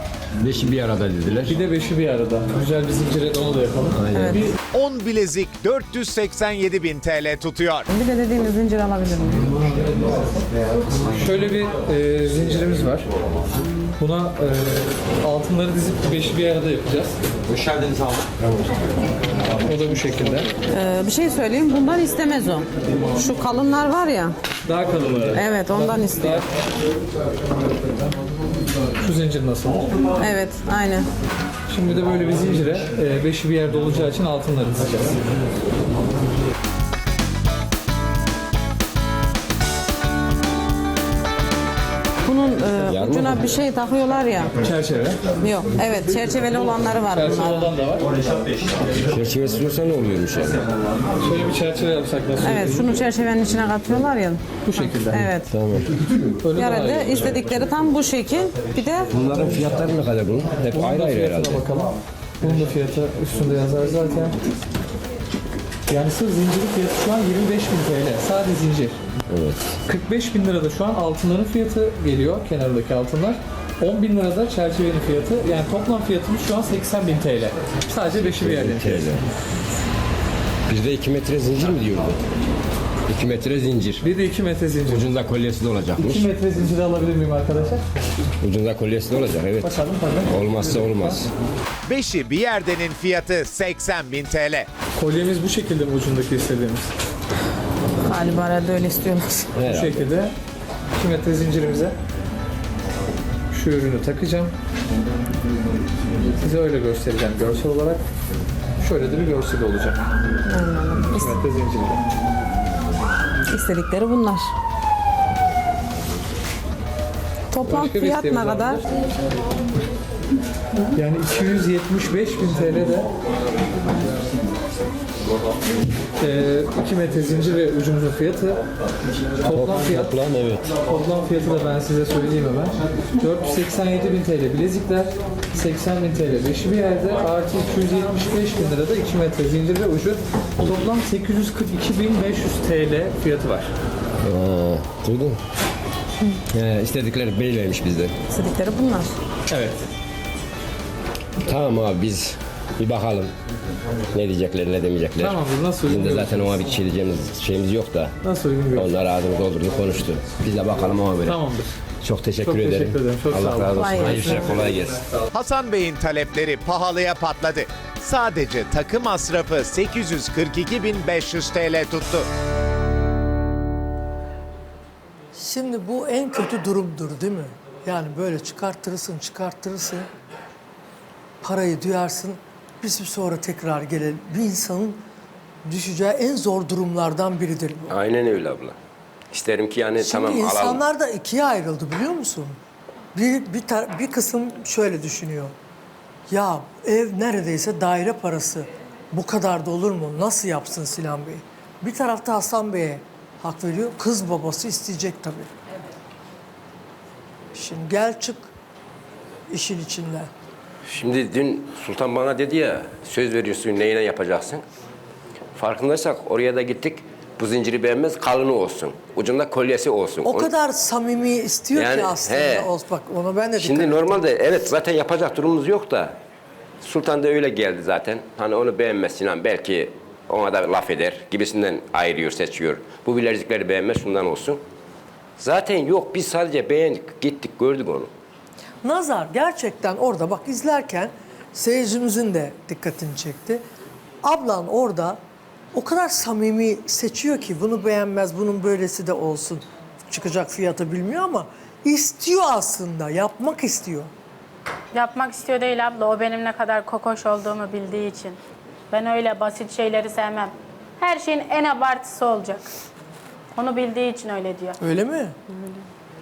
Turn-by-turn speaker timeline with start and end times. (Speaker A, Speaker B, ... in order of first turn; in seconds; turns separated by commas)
Speaker A: 0.4-1.6, Speaker B: 1.5-4.5, Speaker A: 3.9-4.5, Speaker C: 4.1-4.5, Speaker D: 4.7-7.9, Speaker C: 7.9-9.6, Speaker B: 11.1-13.1, Speaker B: 14.0-17.2, Speaker B: 19.6-20.5, Speaker C: 20.7-24.4, Speaker B: 24.6-26.4, Speaker C: 25.4-26.4, Speaker B: 29.0-30.1, Speaker C: 30.2-31.1, Speaker B: 31.7-35.2, Speaker C: 42.3-44.5, Speaker A: 42.9-43.4, Speaker B: 44.6-45.3, Speaker C: 45.4-47.7, Speaker B: 46.6-48.1, Speaker A: 49.0-50.6, Speaker B: 51.2-52.9, Speaker C: 52.4-54.4, Speaker B: 54.6-55.2, Speaker C: 55.1-55.5, Speaker A: 55.5-55.9, Speaker B: 56.4-57.6, Speaker C: 56.5-59.1, Speaker A: 59.1-61.7, Speaker B: 60.7-64.4, Speaker B: 65.9-69.0, Speaker A: 69.3-69.8, Speaker B: 69.9-79.2, Speaker A: 78.2-79.2, Speaker A: 80.7-82.2, Speaker A: 83.1-84.0, Speaker B: 84.0-85.1, Speaker A: 84.9-86.3, Speaker B: 86.0-87.8, Speaker A: 88.4-91.3, Speaker B: 89.6-91.2, Speaker D: 91.9-94.7, Speaker B: 95.0-96.9, Speaker C: 98.0-99.5, Speaker A: 99.6-100.0, Speaker B: 99.6-100.3, Speaker B: 101.0-102.0, Speaker B: 103.5-104.5, Speaker B: 106.4-108.0, Speaker B: 108.8-110.0, Speaker C: 110.5-111.4, Speaker B: 111.2-112.0, Speaker C: 113.5-114.5, Speaker C: 117.5-118.8, Speaker B: 117.6-118.8, Speaker B: 120.9-123.1, Speaker B: 126.2-128.6, Speaker B: 129.4-130.2, Speaker A: 129.5-130.7, Speaker B: 130.8-143.7, Speaker A: 144.2-145.4, Speaker A: 146.5-148.2, Speaker C: 148.3-149.2, Speaker B: 149.5-149.9, Speaker A: 151.4-153.3, Speaker A: 154.1-158.2, Speaker B: 155.2-156.6, Speaker B: 158.2-158.9, Speaker A: 158.8-161.4, Speaker B: 161.2-161.8, Speaker A: 162.0-165.0, Speaker B: 162.4-165.3, Speaker C: 163.8-164.6, Speaker D: 165.3-172.3, Speaker E: 175.3-180.1, Speaker E: 181.4-185.0, Speaker E: 185.7-187.9, Speaker A: 187.9-188.8, Speaker A: 189.3-190.8, Speaker E: 190.0-192.6, Speaker E: 193.2-195.5, Speaker E: 196.3-205.5, Speaker E: 207.5-208.5, Speaker E: 209.5-210.3, Speaker A: 210.9-214.6, Speaker A: 215.6-220.5, Speaker E: 220.2-224.2, Speaker A: 221.8-222.7, Speaker A: 223.6-226.2, Speaker A: 226.8-234.6, Speaker A: 235.4-238.1, Speaker E: 238.8-243.6, Speaker E: 244.2-245.2, Speaker E: 245.7-254.1, Speaker F: 254.9-258.4, Speaker F: 258.9-262.7, Speaker F: 263.6-264.8, Speaker E: 264.8-265.4